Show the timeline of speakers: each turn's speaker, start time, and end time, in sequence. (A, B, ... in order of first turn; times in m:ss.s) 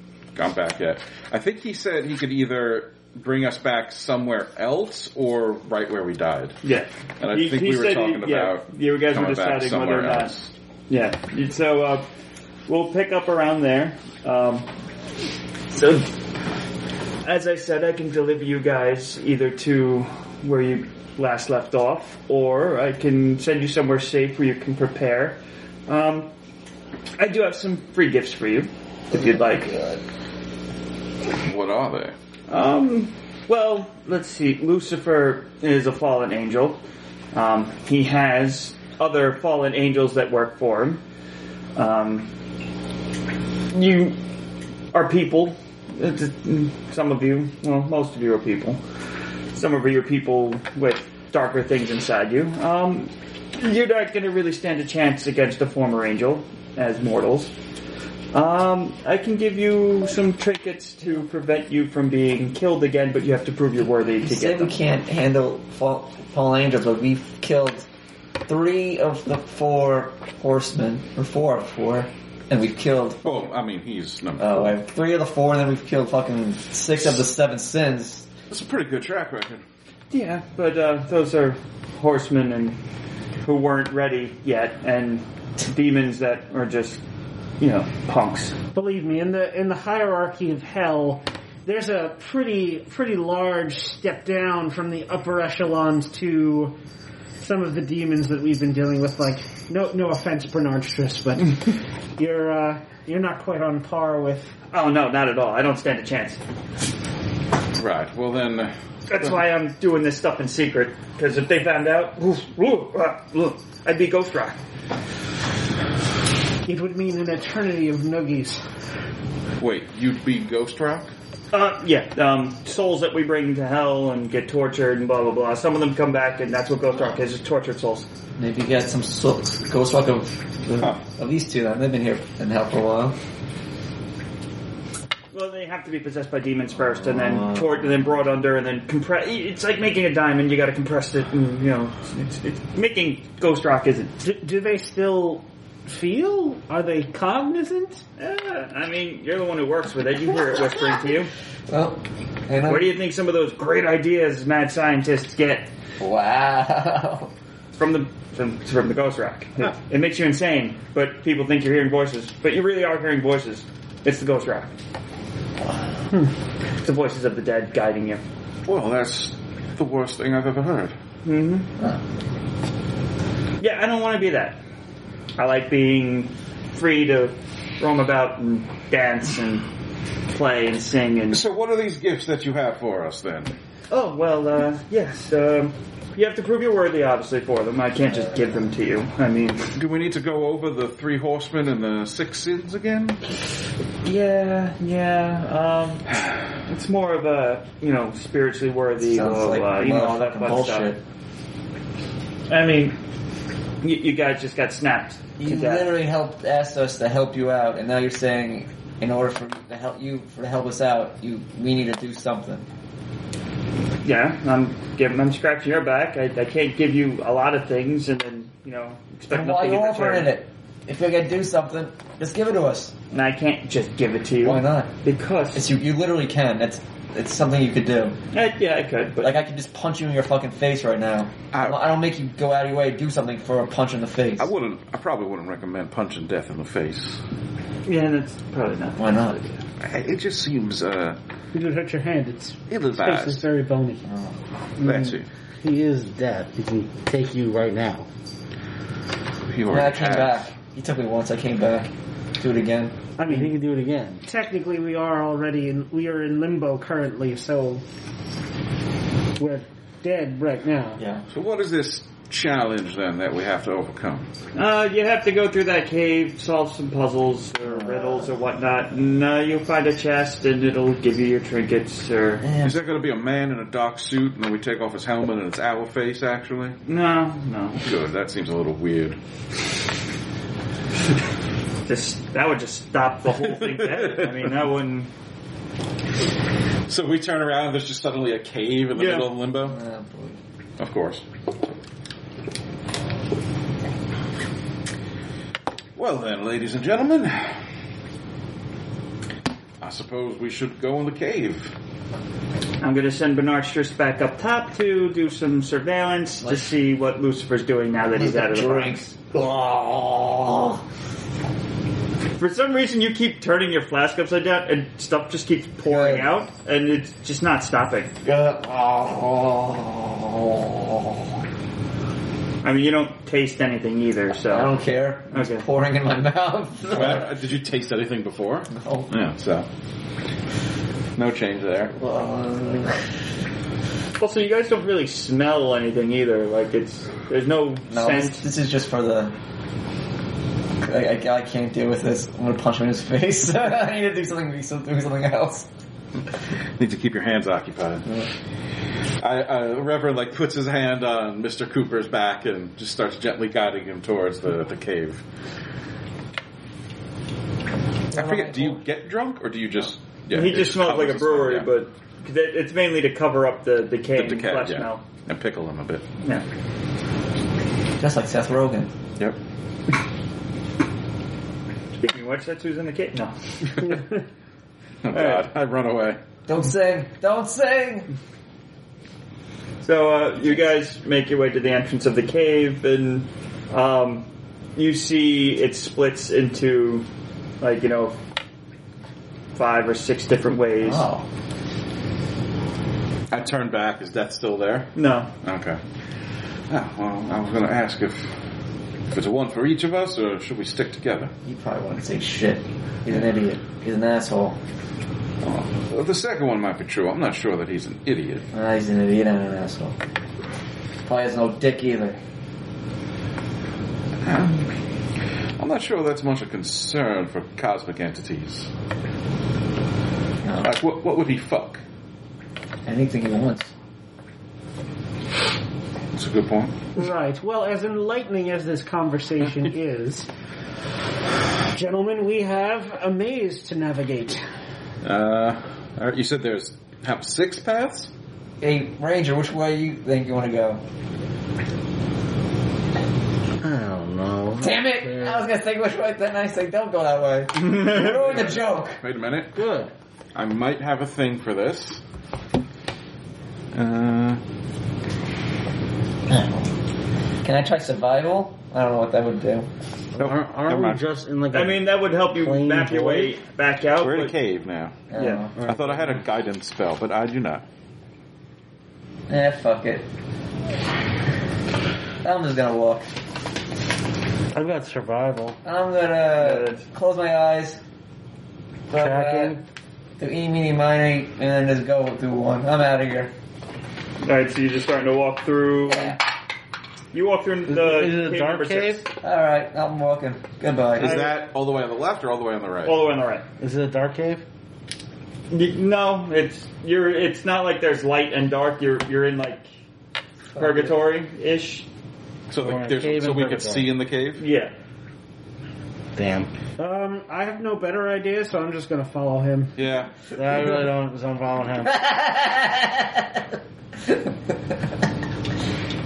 0:00.3-0:06.6 A
0:06.6-0:10.3 B
0:07.2-0:10.5 A
0:10.9-0:12.0 B
0:12.7-0:14.7 B
0:15.7-0:16.1 B
0:17.2-0:26.3 B
0:27.2-0:30.0 B
0:31.4-0:32.1 A
0:32.5-0:36.8 B
0:37.3-0:41.0 B
0:41.8-0:42.3 B
0:43.7-0:44.2 B
0:44.9-0:48.8 B
0:49.5-0:57.5 B
0:58.3-1:04.7 B
1:04.2-1:07.8 C
1:08.5-1:13.3 C
1:13.2-1:14.8 A
1:14.4-1:18.3 C
1:18.5-1:19.6 A
1:20.1-1:22.8 B
1:23.4-1:27.0 B
1:27.6-1:28.6 B
1:28.7-1:36.8 D
1:37.4-1:44.5 D
1:44.7-1:46.4 B
1:47.8-1:48.7 A
1:49.1-1:54.6 B
1:56.6-1:58.6 D
1:59.6-2:01.1 A
2:01.5-2:08.1 B
2:08.4-2:13.2 C
2:15.3-2:24.1 B
2:17.0-2:17.9 C
2:24.2-2:28.0 D
2:28.2-2:31.3 B
2:31.7-2:33.0 C
2:32.6-2:35.7 B
2:36.0-2:37.3 C
2:37.8-2:44.7 B
2:46.8-2:48.2 B
2:48.6-2:51.0 A
2:51.2-2:51.7 B
2:53.6-2:54.6 B
2:55.4-2:59.7 B
3:00.3-3:01.4 B
3:01.3-3:03.5 A
3:03.9-3:09.7 B
3:09.7-3:13.2 A
3:14.0-3:20.9 B
3:19.0-3:21.0 C
3:22.5-3:23.0 B
3:23.8-3:25.9 B
3:25.4-3:32.6 C
3:34.0-3:40.4 B
3:39.3-3:42.9 C
3:43.1-3:45.6 B
3:44.4-3:44.9 C
3:45.5-3:48.2 C
3:48.3-3:49.4 B
3:49.2-3:54.5 C
3:51.5-3:51.8 A
3:54.4-3:57.2 A
3:57.8-3:59.6 B
3:59.0-3:59.4 C
3:59.8-4:01.2 A
4:01.5-4:04.0 D
4:02.7-4:03.4 A
4:04.0-4:04.4 C
4:04.8-4:05.3 A
4:05.6-4:08.1 E
4:09.5-4:10.4 A
4:09.7-4:12.9 C
4:13.2-4:13.6 D
4:13.3-4:14.2 E
4:14.2-4:17.8 D
4:19.4-4:21.0 D
4:21.0-4:21.2 C
4:21.3-4:24.3 A
4:24.5-4:32.4 B
4:27.6-4:28.3 C
4:32.4-4:32.8 C
4:32.6-4:36.8 A
4:36.8-4:37.8 B
4:37.8-4:39.2 A
4:41.8-4:45.1 B
4:43.4-4:44.5 A
4:46.9-4:49.8 A
4:48.9-4:49.3 B
4:49.5-4:50.4 C
4:50.8-4:51.2 A
4:56.0-4:57.6 A
4:59.8-5:01.7 A
5:02.8-5:09.0 B
5:06.4-5:06.7 C
5:08.1-5:10.8 C
5:12.4-5:18.1 B
5:15.8-5:16.3 C
5:18.2-5:21.4 C
5:22.6-5:24.7 B
5:24.5-5:27.3 C
5:25.3-5:25.6 B
5:26.9-5:29.7 A
5:28.7-5:29.1 C
5:31.2-5:31.9 A
5:31.9-5:33.1 C
5:34.2-5:38.5 B
5:37.9-5:39.3 C
5:40.8-5:45.7 C
5:46.8-5:48.0 A
5:49.2-5:55.2 A
5:58.1-5:58.8 C
5:58.1-6:01.7 A
6:00.3-6:05.0 B
6:04.1-6:06.0 A
6:08.0-6:08.9 C
6:12.0-6:13.9 B
6:15.0-6:16.2 A
6:15.1-6:15.5 B
6:16.5-6:18.1 C
6:19.8-6:27.0 B
6:27.6-6:28.2 B
6:29.5-6:31.0 B
6:30.8-6:31.3 C
6:33.3-6:34.9 A
6:35.0-6:35.3 B
6:35.4-6:35.8 A
6:36.7-6:38.3 A
6:39.1-6:41.3 A
6:41.4-6:44.6 C
6:45.4-6:48.5 A
6:48.5-6:50.0 C
6:51.0-6:52.2 C
6:54.2-6:54.7 A
6:55.6-6:58.7 A
7:00.4-7:00.7 C
7:00.6-7:01.8 A
7:02.8-7:03.7 C
7:06.1-7:06.8 A
7:07.0-7:10.3 D
7:11.7-7:14.4 D
7:15.0-7:18.1 A
7:18.6-7:20.8 C
7:23.6-7:25.5 E
7:24.6-7:29.0 C
7:27.6-7:28.2 B
7:28.2-7:29.6 A
7:29.5-7:29.9 E
7:30.3-7:32.0 A
7:33.7-7:34.4 A
7:36.3-7:36.7 C
7:37.4-7:39.7 C
7:40.1-7:43.4 E
7:40.2-7:41.0 A
7:41.5-7:44.4 B
7:44.0-7:45.0 A
7:45.1-7:45.5 C
7:45.1-7:45.4 B
7:45.6-7:46.1 E
7:45.6-7:47.6 A
7:49.3-7:50.0 C
7:52.2-7:53.1 C
7:54.5-7:55.6 E
7:55.6-7:57.8 C
7:56.4-7:56.8 B
7:58.9-7:59.6 C
7:58.9-7:59.6 E
8:00.2-8:03.3 C
8:04.2-8:06.2 B
8:05.8-8:06.2 C
8:07.1-8:09.0 B
8:07.7-8:09.0 E
8:09.2-8:11.3 C
8:11.0-8:13.0 A
8:11.0-8:11.3 B
8:12.8-8:13.4 B
8:13.6-8:14.4 E
8:15.5-8:19.7 B
8:20.5-8:21.0 C
8:20.6-8:21.9 B
8:22.5-8:24.4 A
8:22.6-8:23.9 E
8:24.4-8:24.7 B
8:26.1-8:26.5 E
8:26.8-8:29.8 D
8:29.8-8:30.3 A
8:30.3-8:32.0 E
8:31.8-8:33.4 C
8:34.0-8:34.5 C